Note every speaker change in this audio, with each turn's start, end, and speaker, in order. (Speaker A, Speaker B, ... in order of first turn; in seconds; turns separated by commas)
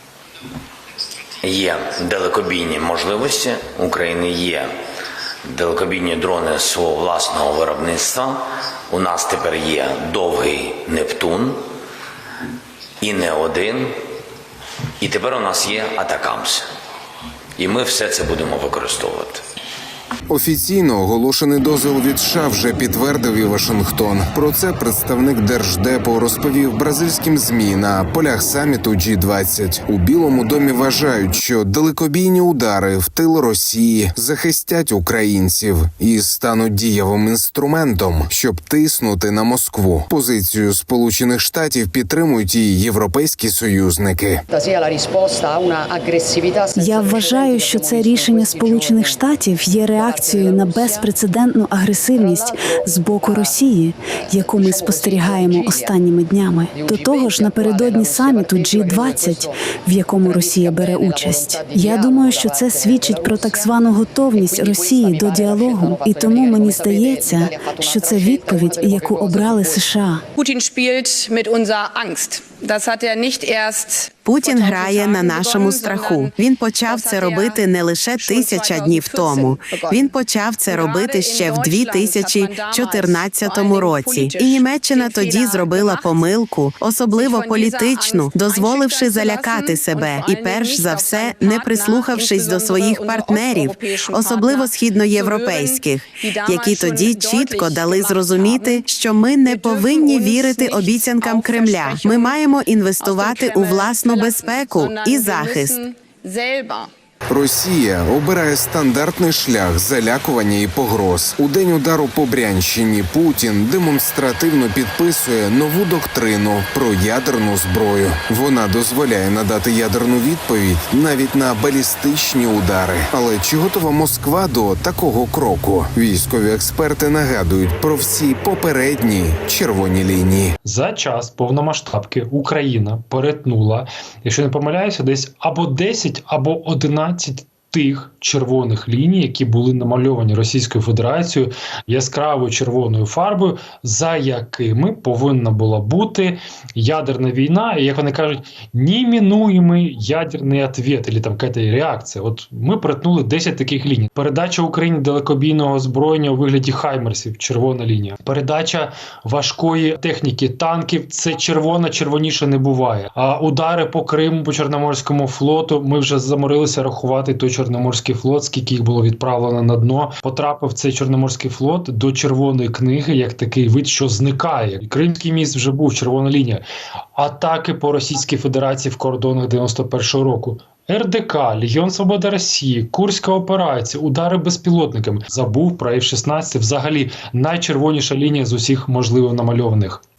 Speaker A: 1.4-4.7, Speaker A: 5.5-11.6, Speaker A: 13.0-14.0, Speaker A: 15.0-16.7, Speaker A: 17.6-19.4, Speaker B: 20.3-44.4, Speaker C: 46.8-70.2, Speaker D: 70.3-80.1, Speaker E: 74.2-105.8, Speaker D: 80.7-86.3, Speaker D: 87.0-102.4, Speaker D: 103.0-106.9, Speaker B: 107.3-130.6, Speaker F: 130.6-176.6, Speaker F: 177.2-190.0